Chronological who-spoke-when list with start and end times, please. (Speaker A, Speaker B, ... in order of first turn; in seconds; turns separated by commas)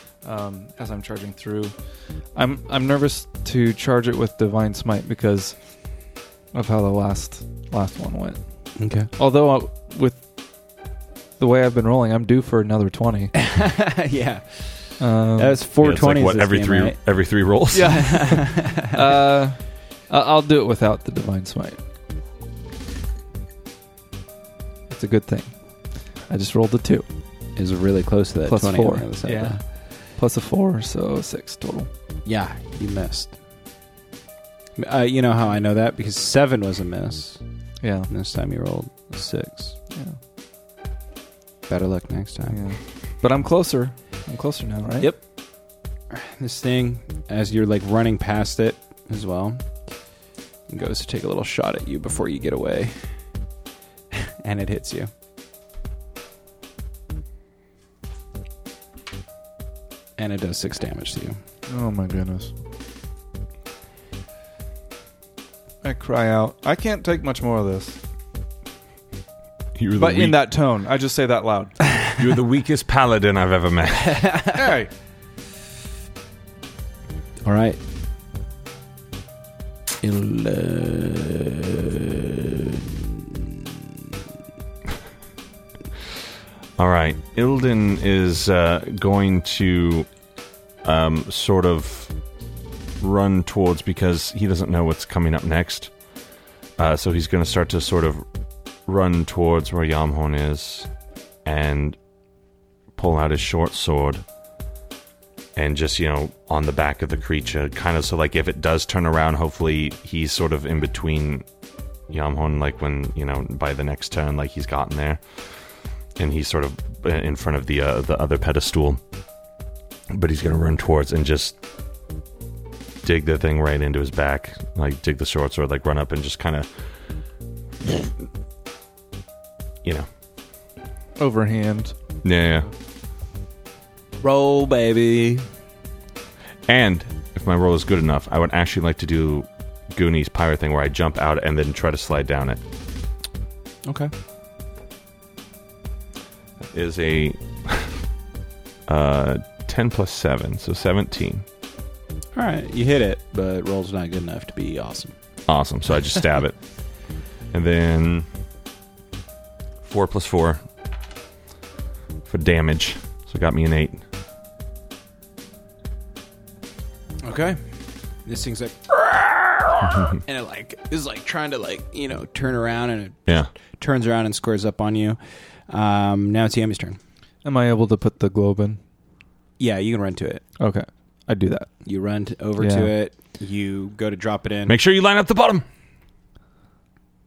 Speaker A: 0.2-1.7, Speaker A: 2.3-6.0, Speaker A: 6.5-8.4, Speaker B: 8.8-9.1, Speaker A: 9.2-10.2, Speaker A: 11.4-13.3, Speaker B: 13.4-14.6, Speaker A: 15.0-15.6, Speaker B: 15.4-17.0, Speaker C: 15.8-18.4, Speaker A: 17.7-21.8, Speaker B: 17.8-19.1, Speaker A: 24.9-25.5, Speaker A: 26.3-27.1, Speaker B: 27.6-29.6, Speaker A: 28.5-29.6, Speaker A: 30.1-31.9, Speaker B: 32.2-33.4, Speaker B: 34.8-37.4, Speaker A: 37.8-38.1, Speaker B: 38.1-39.8, Speaker B: 41.7-42.6, Speaker A: 42.5-45.1, Speaker B: 46.1-49.6, Speaker B: 50.7-53.0, Speaker B: 54.1-55.1, Speaker B: 60.2-61.4, Speaker A: 61.7-62.5, Speaker A: 65.8-68.0, Speaker C: 69.7-70.4, Speaker A: 70.0-71.8, Speaker C: 72.2-74.3, Speaker B: 74.1-74.7, Speaker A: 74.5-74.9, Speaker B: 77.4-77.8, Speaker B: 80.0-83.6, Speaker C: 86.8-90.1, Speaker C: 90.8-92.1, Speaker C: 93.0-95.9, Speaker C: 96.8-98.2, Speaker C: 98.8-100.9, Speaker C: 101.4-102.0, Speaker C: 103.0-104.2, Speaker C: 105.5-111.5, Speaker C: 112.1-115.2, Speaker C: 116.2-119.0, Speaker C: 120.1-121.6, Speaker C: 123.0-126.7, Speaker A: 131.2-131.9, Speaker C: 132.2-132.7, Speaker B: 134.2-135.4, Speaker C: 136.7-142.6, Speaker B: 143.8-144.1, Speaker C: 146.7-148.0, Speaker C: 148.9-151.4, Speaker B: 152.3-155.2, Speaker C: 155.5-156.6, Speaker C: 157.5-158.3, Speaker C: 159.8-160.6, Speaker C: 162.2-164.0, Speaker B: 167.2-167.6, Speaker B: 168.2-175.2, Speaker B: 175.7-177.0, Speaker A: 177.4-178.8, Speaker B: 179.6-180.4, Speaker A: 180.6-181.7, Speaker B: 181.8-184.8, Speaker A: 182.6-182.9, Speaker C: 184.7-185.6